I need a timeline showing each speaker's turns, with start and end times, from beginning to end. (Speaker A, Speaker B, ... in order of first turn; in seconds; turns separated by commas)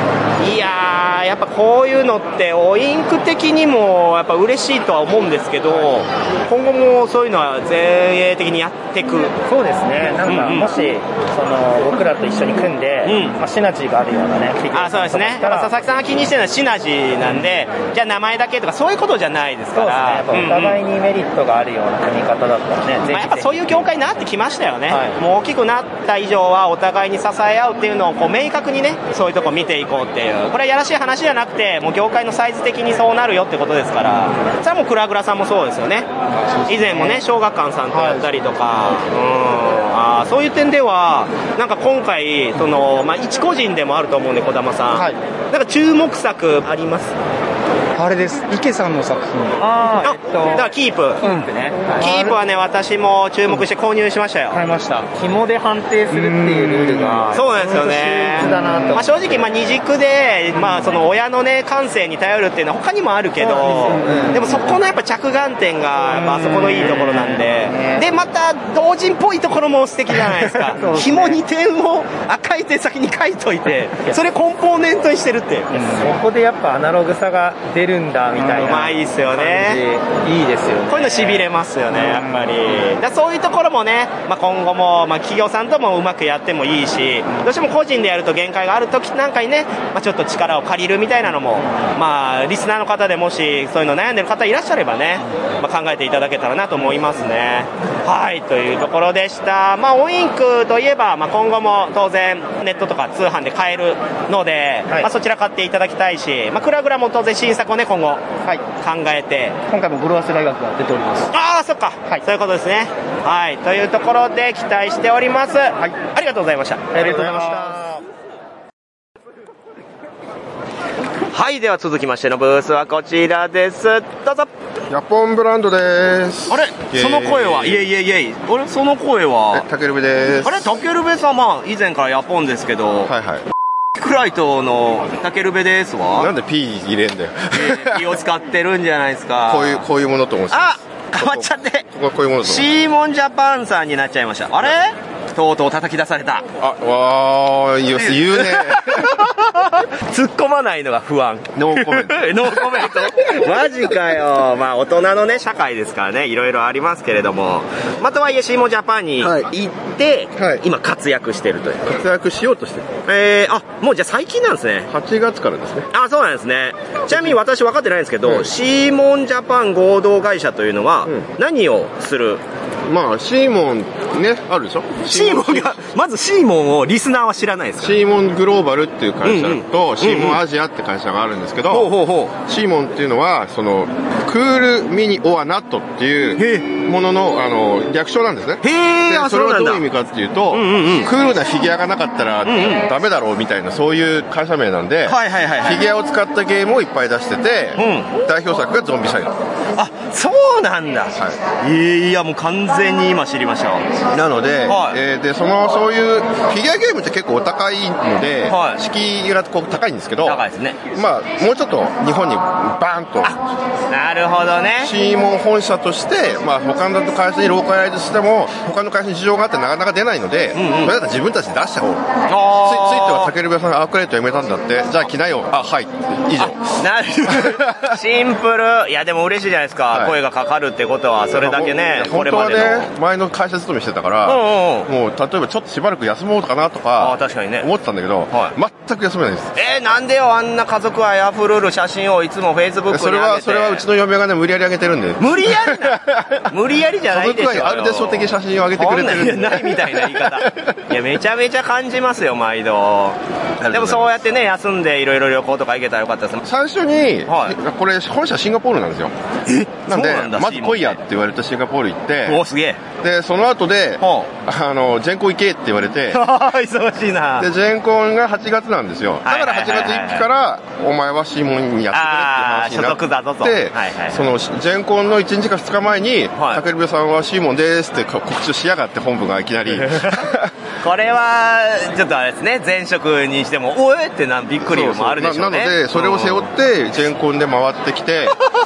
Speaker A: 0.4-9.3, Speaker B: 9.4-16.0, Speaker A: 10.2-10.7, Speaker A: 13.0-13.4, Speaker A: 14.7-20.8, Speaker B: 19.7-23.8, Speaker A: 23.1-36.1, Speaker B: 24.9-25.2, Speaker B: 36.6-37.2, Speaker A: 36.7-47.2, Speaker B: 37.9-38.2, Speaker C: 48.0-49.6, Speaker B: 49.6-52.4, Speaker A: 50.0-51.2, Speaker A: 52.0-54.6, Speaker B: 54.5-59.1, Speaker A: 57.3-75.8, Speaker B: 63.4-64.4, Speaker B: 66.0-68.0, Speaker B: 70.7-71.4, Speaker B: 75.7-81.5, Speaker A: 78.4-79.8, Speaker A: 80.9-108.2, Speaker B: 82.0-82.3, Speaker A: 108.8-109.5, Speaker C: 109.7-111.3, Speaker B: 109.9-111.2, Speaker A: 111.3-117.8, Speaker B: 116.9-117.9, Speaker A: 121.3-124.5, Speaker D: 124.9-127.9, Speaker A: 126.5-129.6, Speaker D: 129.5-130.7, Speaker A: 130.4-133.1, Speaker D: 133.1-133.4, Speaker A: 133.9-136.3, Speaker D: 136.2-138.0, Speaker A: 137.6-139.8, Speaker D: 139.5-142.7, Speaker A: 140.5-141.8, Speaker A: 142.4-146.4, Speaker D: 146.6-149.1, Speaker A: 148.0-161.8, Speaker D: 151.5-153.3, Speaker D: 161.8-163.0, Speaker A: 163.1-164.9, Speaker D: 164.9-165.9, Speaker A: 165.9-172.4, Speaker D: 172.9-175.8, Speaker A: 175.1-177.9, Speaker D: 177.8-199.3, Speaker A: 179.2-180.4, Speaker A: 181.7-182.3, Speaker A: 186.4-186.7, Speaker A: 188.6-189.8, Speaker A: 190.5-191.1, Speaker A: 192.4-192.8, Speaker A: 195.1-195.8, Speaker A: 197.8-198.1, Speaker A: 199.8-203.9, Speaker D: 204.1-210.4, Speaker A: 204.7-205.0, Speaker A: 208.5-208.8, Speaker A: 210.2-210.8, Speaker D: 210.9-213.4, Speaker A: 213.9-214.9, Speaker D: 214.8-222.0, Speaker A: 220.5-220.9, Speaker A: 222.3-223.3, Speaker D: 222.6-226.6, Speaker A: 226.4-232.9, Speaker D: 227.3-227.8, Speaker D: 231.3-239.6, Speaker A: 234.2-234.9, Speaker A: 237.0-237.7, Speaker A: 239.6-243.8, Speaker D: 242.9-246.4, Speaker A: 245.2-246.0, Speaker A: 246.5-248.2, Speaker D: 247.1-250.5, Speaker A: 248.8-256.4, Speaker D: 253.6-254.2, Speaker D: 256.4-259.1, Speaker A: 257.3-257.5, Speaker A: 259.5-261.0, Speaker D: 259.9-262.4, Speaker A: 262.2-262.8, Speaker D: 263.0-266.2, Speaker A: 264.0-264.3, Speaker A: 266.1-267.5, Speaker D: 267.4-280.5, Speaker A: 269.2-270.2, Speaker A: 271.9-274.2, Speaker A: 279.9-280.2, Speaker A: 280.8-286.4, Speaker D: 284.6-288.4